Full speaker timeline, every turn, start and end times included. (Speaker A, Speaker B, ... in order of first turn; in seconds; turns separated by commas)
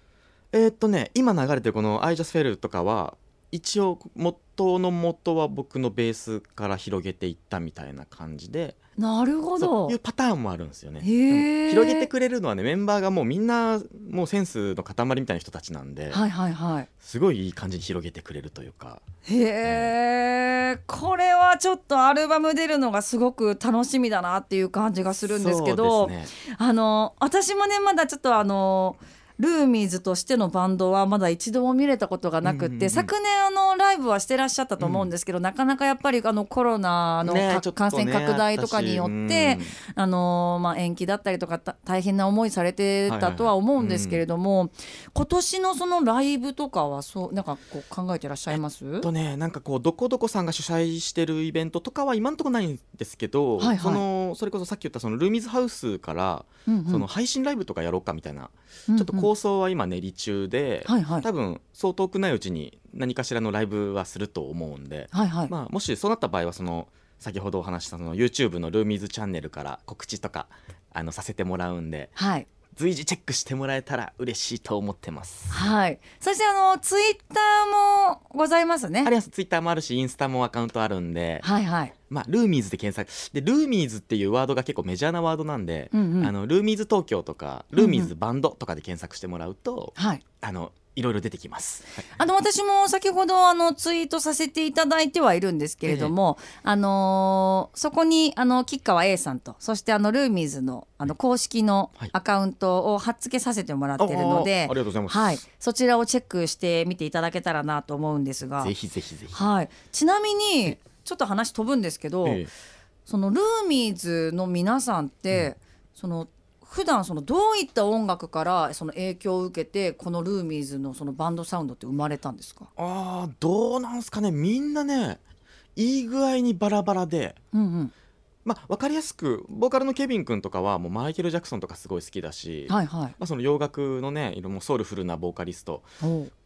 Speaker A: 0.5-8.8, Speaker B: 9.0-9.9, Speaker A: 9.6-16.2, Speaker B: 11.0-12.1, Speaker B: 16.1-16.9, Speaker A: 17.0-19.0, Speaker B: 19.2-49.1, Speaker A: 19.6-19.9, Speaker A: 25.2-26.3, Speaker A: 32.4-33.1, Speaker A: 34.8-35.1, Speaker A: 37.2-39.7, Speaker A: 43.1-44.2, Speaker A: 48.5-72.1, Speaker B: 53.6-54.0, Speaker B: 56.6-57.0, Speaker B: 58.9-59.3, Speaker B: 60.9-61.3, Speaker B: 65.1-65.5, Speaker B: 72.2-72.5, Speaker A: 72.8-75.6, Speaker B: 75.5-79.1, Speaker A: 79.0-81.4, Speaker B: 81.4-81.9, Speaker A: 82.1-92.0, Speaker B: 85.9-86.3, Speaker B: 87.8-88.1, Speaker B: 90.0-90.2, Speaker B: 92.1-108.7, Speaker A: 95.8-96.1, Speaker A: 104.0-105.3, Speaker A: 108.6-109.4, Speaker B: 109.3-112.5, Speaker A: 112.2-112.5, Speaker B: 113.0-122.7, Speaker A: 122.8-125.2, Speaker A: 125.8-127.4, Speaker B: 127.5-127.9, Speaker A: 128.4-135.8, Speaker B: 132.7-133.2, Speaker B: 136.0-136.3